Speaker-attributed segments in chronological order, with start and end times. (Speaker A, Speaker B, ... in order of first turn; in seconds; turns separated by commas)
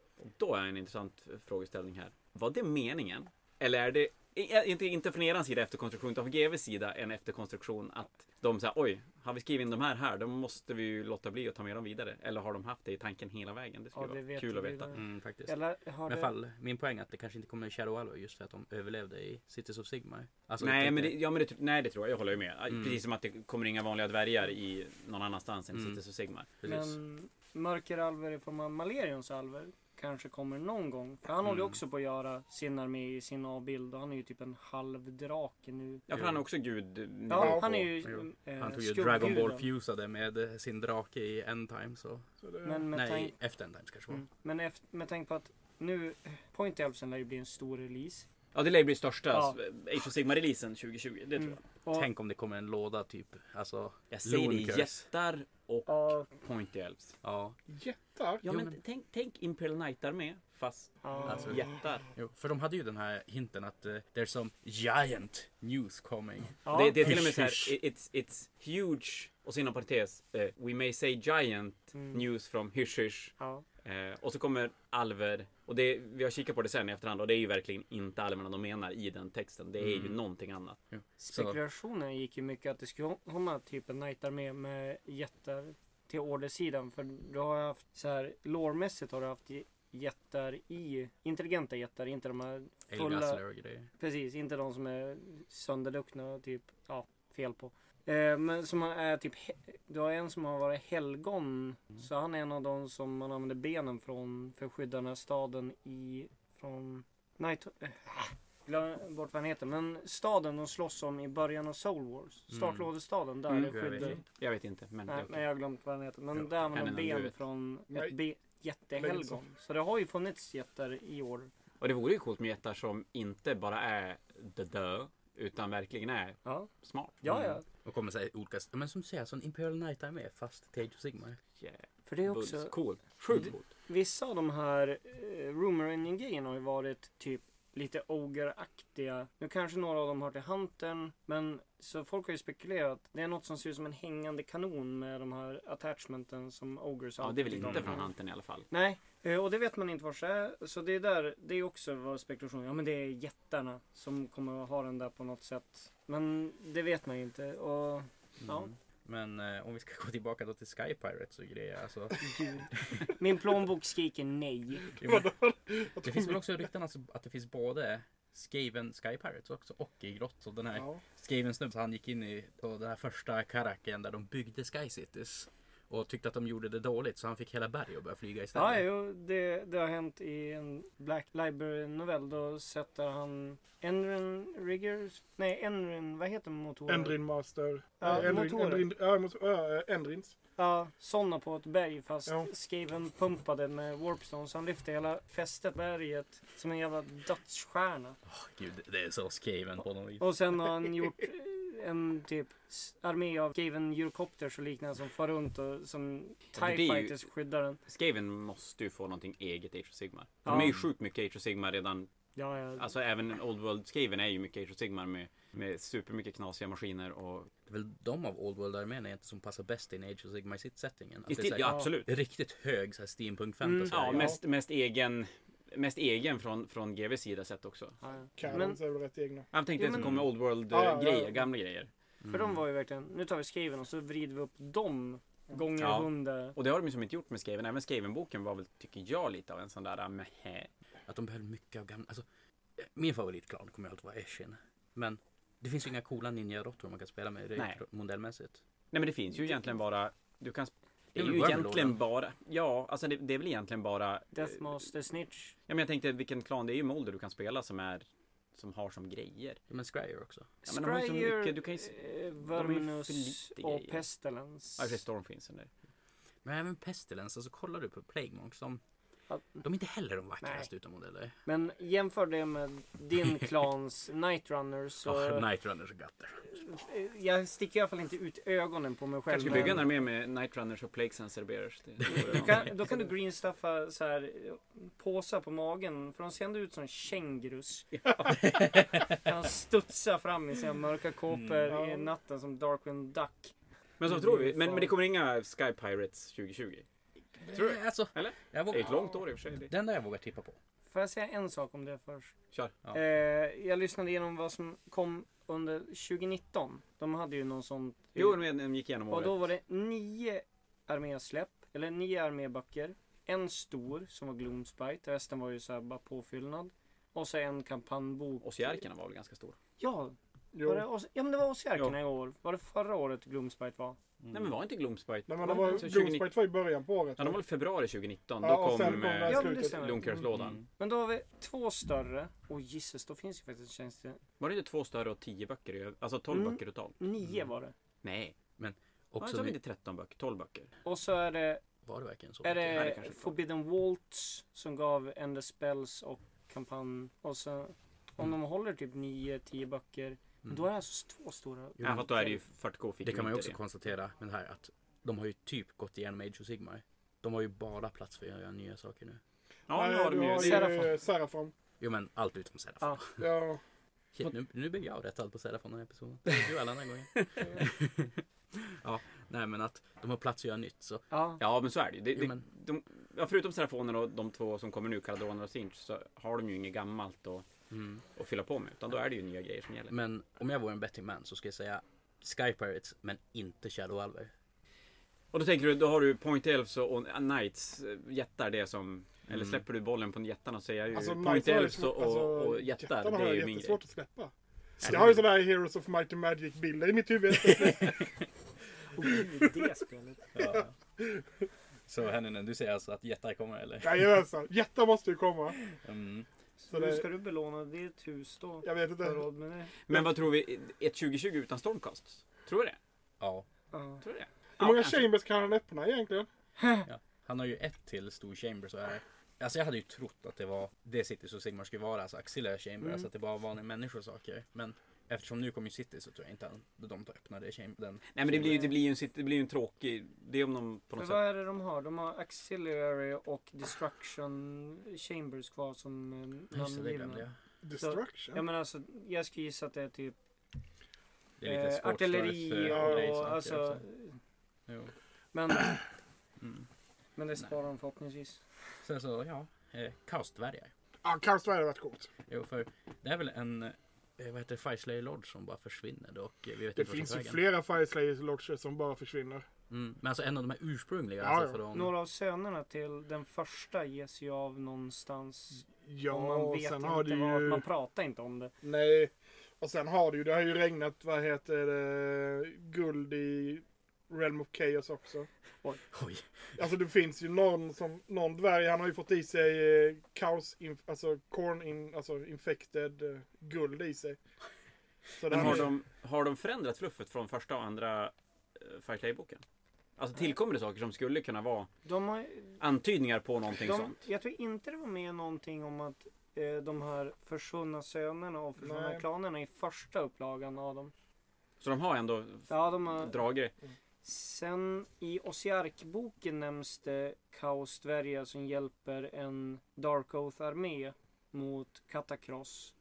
Speaker A: 0.2-14.9, Speaker B: 13.9-16.3, Speaker C: 14.9-15.6, Speaker C: 16.1-21.2, Speaker A: 20.6-26.5, Speaker C: 22.7-23.0, Speaker C: 26.6-26.9, Speaker B: 26.6-36.0, Speaker A: 36.1-37.9, Speaker C: 36.1-36.4, Speaker B: 37.3-39.7, Speaker D: 37.4-37.7, Speaker C: 38.0-42.2, Speaker D: 42.4-42.8, Speaker B: 42.6-43.3, Speaker C: 42.9-44.2, Speaker B: 44.1-48.2, Speaker A: 48.5-51.6, Speaker B: 49.3-49.6, Speaker B: 51.4-52.1, Speaker C: 51.9-55.0, Speaker A: 54.1-57.2, Speaker B: 55.9-56.3, Speaker C: 57.2-57.6, Speaker D: 57.7-58.4, Speaker C: 58.4-58.8, Speaker A: 58.4-62.1, Speaker B: 61.0-61.7, Speaker C: 61.2-67.7, Speaker B: 66.6-67.2, Speaker A: 66.7-80.8, Speaker B: 71.9-72.2, Speaker B: 73.4-73.6, Speaker C: 79.8-80.2, Speaker C: 80.9-81.6, Speaker B: 81.2-93.4, Speaker C: 92.9-93.9, Speaker B: 94.0-114.2, Speaker C: 112.5-112.9, Speaker A: 113.5-115.4, Speaker C: 113.6-114.2, Speaker B: 115.1-121.5, Speaker A: 116.4-117.4, Speaker D: 119.0-119.4, Speaker A: 121.8-127.2, Speaker B: 126.4-126.7, Speaker B: 127.2-127.6, Speaker C: 127.2-131.4, Speaker A: 131.6-133.7, Speaker B: 132.1-132.7, Speaker B: 133.9-148.1, Speaker A: 147.2-148.7, Speaker C: 147.5-147.9, Speaker B: 148.7-158.7, Speaker C: 158.4-163.1, Speaker B: 162.2-164.9, Speaker C: 164.9-165.3, Speaker D: 165.0-166.4, Speaker C: 166.0-178.8, Speaker D: 170.7-171.0, Speaker B: 178.5-187.2, Speaker D: 186.9-190.3, Speaker B: 188.0-188.8, Speaker B: 190.6-198.2, Speaker C: 198.2-200.5, Speaker B: 200.2-207.8, Speaker A: 206.6-207.2, Speaker A: 207.9-212.1, Speaker B: 210.4-210.7, Speaker C: 210.5-210.8, Speaker B: 212.3-212.9, Speaker A: 212.8-217.5, Speaker C: 217.7-224.4, Speaker A: 221.3-222.1, Speaker B: 221.6-221.9, Speaker B: 223.6-224.2, Speaker A: 223.9-228.0, Speaker B: 228.0-228.8, Speaker D: 228.4-229.5, Speaker A: 229.5-231.9, Speaker B: 229.8-230.3, Speaker C: 230.0-230.2, Speaker D: 230.7-231.4, Speaker C: 232.2-232.6, Speaker B: 232.2-236.6, Speaker A: 235.8-240.7, Speaker C: 241.1-242.2, Speaker C: 242.8-248.6, Speaker A: 248.9-254.7, Speaker C: 251.2-252.0, Speaker B: 254.3-255.6, Speaker A: 255.7-259.6, Speaker C: 259.7-260.5, Speaker B: 260.6-265.0, Speaker A: 260.7-264.0, Speaker A: 264.8-265.7, Speaker C: 266.4-268.8, Speaker B: 269.3-269.6, Speaker C: 269.6-271.3, Speaker B: 270.4-270.7, Speaker B: 271.4-275.4, Speaker C: 275.0-276.6, Speaker B: 276.5-279.9, Speaker A: 279.3-283.1, Speaker C: 279.4-279.8, Speaker B: 282.0-287.9, Speaker A: 287.9-288.4, Speaker C: 288.4-289.1, Speaker B: 289.1-293.5, Speaker C: 291.3-291.8, Speaker D: 291.7-292.1, Speaker A: 294.0-296.8, Speaker B: 294.1-294.9, Speaker C: 297.4-299.1, Speaker A: 297.5-299.7, Speaker C: 299.7-300.6, Speaker B: 300.9-302.3, Speaker B: 302.9-308.4, Speaker A: 308.1-309.4, Speaker B: 309.1-318.8, Speaker A: 318.4-319.6, Speaker B: 319.8-324.0, Speaker D: 320.5-320.8, Speaker C: 324.2-324.6, Speaker A: 324.3-326.3, Speaker D: 325.3-327.4, Speaker B: 325.4-325.9, Speaker A: 327.2-330.6, Speaker D: 328.4-330.1, Speaker B: 329.2-334.2, Speaker C: 330.3-330.6, Speaker A: 334.4-337.0, Speaker B: 336.3-337.7, Speaker A: 338.0-338.3, Speaker C: 338.6-339.6, Speaker A: 339.2-340.7, Speaker B: 340.8-341.6, Speaker C: 341.8-342.9, Speaker B: 342.4-352.4, Speaker A: 342.7-343.4, Speaker C: 351.8-352.1, Speaker A: 351.8-353.6, Speaker C: 353.0-359.2, Speaker A: 359.7-360.8, Speaker D: 359.7-361.5, Speaker B: 360.3-360.9, Speaker C: 361.8-363.3, Speaker D: 363.2-363.6, Speaker C: 364.1-371.0, Speaker B: 371.1-371.4, Speaker A: 371.4-377.4, Speaker C: 372.1-372.4, Speaker C: 377.7-378.0, Speaker A: 378.1-379.9, Speaker C: 379.9-384.3, Speaker A: 385.3-393.8, Speaker C: 389.3-389.6, Speaker D: 390.9-398.1, Speaker A: 394.8-395.2, Speaker C: 397.4-398.1, Speaker B: 398.9-400.3, Speaker C: 400.3-400.7, Speaker D: 400.4-401.2, Speaker C: 401.9-404.1, Speaker D: 403.8-405.6, Speaker C: 405.7-406.3, Speaker B: 406.6-409.7, Speaker D: 406.7-407.1, Speaker D: 408.6-409.2, Speaker A: 409.8-412.8, Speaker C: 413.2-413.4, Speaker B: 413.7-414.0, Speaker A: 414.0-415.1, Speaker D: 414.6-416.3, Speaker B: 416.6-416.9, Speaker C: 416.9-428.7, Speaker B: 422.8-423.1, Speaker A: 428.1-431.2, Speaker B: 431.0-437.2, Speaker C: 436.5-437.4, Speaker D: 437.6-438.4, Speaker B: 437.8-440.1, Speaker C: 441.4-443.8, Speaker B: 441.4-444.2, Speaker D: 442.7-443.2, Speaker C: 444.7-444.9, Speaker B: 445.3-445.8, Speaker B: 447.1-448.4, Speaker C: 448.8-450.7, Speaker D: 451.0-452.1, Speaker C: 452.3-457.4, Speaker D: 456.7-459.4, Speaker C: 459.7-461.9, Speaker D: 461.2-461.6, Speaker B: 461.7-468.5, Speaker D: 465.8-467.6, Speaker D: 468.6-475.3, Speaker C: 475.9-476.6, Speaker D: 476.6-484.2, Speaker D: 485.2-485.7, Speaker A: 485.3-489.4, Speaker C: 485.3-485.6, Speaker A: 490.0-491.7, Speaker B: 491.8-492.6, Speaker A: 492.6-494.0, Speaker B: 493.6-500.9, Speaker D: 498.6-499.0, Speaker A: 501.6-503.5, Speaker B: 502.5-503.2, Speaker B: 504.0-512.7